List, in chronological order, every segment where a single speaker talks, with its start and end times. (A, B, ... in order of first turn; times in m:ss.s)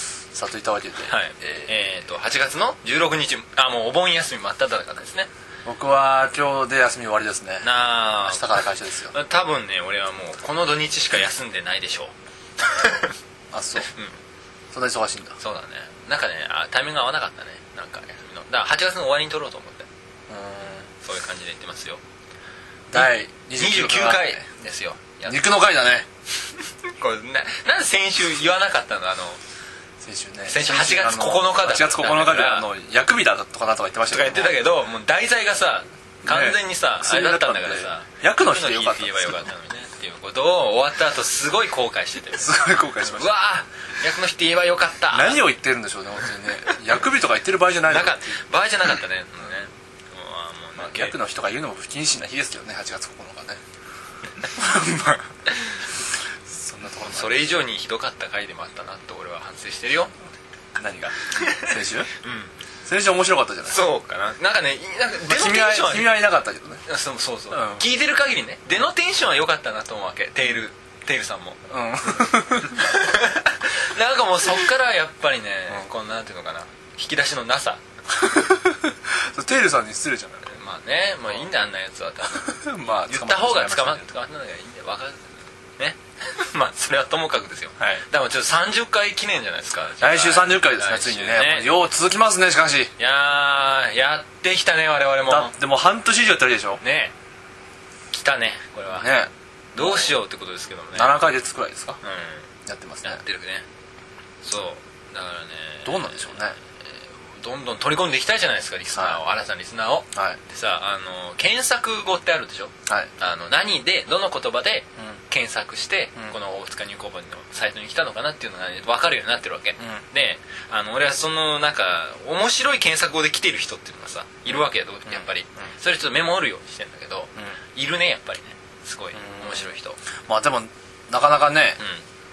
0:00.3-0:01.7 A
0:01.0-0:05.3 B
0:05.6-0:09.2 A
0:07.6-0:13.1 B
0:13.5-0:13.9 A
0:14.7-0:15.4 A
0:15.4-0:19.9 B
0:20.3-0:20.9 A
0:21.0-0:22.0 B
0:22.9-0:24.4 A
0:22.9-0:25.4 B
0:25.2-0:26.1 A
0:26.8-0:29.4 B
0:30.0-0:34.6 A
0:30.5-0:32.7 B
0:34.1-0:42.5 B
0:36.2-0:39.5 A
0:42.4-0:43.3 A
0:43.1-0:45.4 B
0:45.1-0:48.3 A
0:47.9-0:51.2 B
0:50.8-0:53.6 A
0:54.6-0:55.2 A
0:56.5-0:57.5 A
0:57.0-1:00.1 B
1:00.8-1:02.1 A
1:01.4-1:01.6 B
1:02.2-1:02.5 B
1:02.8-1:03.9 A
1:03.7-1:06.2 B
1:05.2-1:06.8 A
1:06.8-1:11.6 B
1:07.5-1:07.8 A
1:11.7-1:12.8 A
1:12.7-1:17.8 B
1:18.1-1:20.5 A
1:20.4-1:31.7 B
1:22.4-1:24.0 A
1:27.8-1:28.0 A
1:30.0-1:32.9 A
1:33.0-1:35.5 B
1:35.3-1:36.8 A
1:36.8-1:37.1 B
1:38.1-1:39.1 B
1:38.9-1:40.2 A
1:39.7-1:41.3 B
1:40.9-1:42.0 A
1:42.0-1:42.4 B
1:42.6-1:43.2 A
1:43.0-1:43.6 B
1:44.4-1:46.4 B
1:45.8-1:46.6 A
1:47.3-2:10.0 B
1:48.9-1:49.2 A
1:50.1-1:50.4 A
1:52.8-1:53.1 A
2:05.1-2:05.6 A
2:09.1-2:11.8 A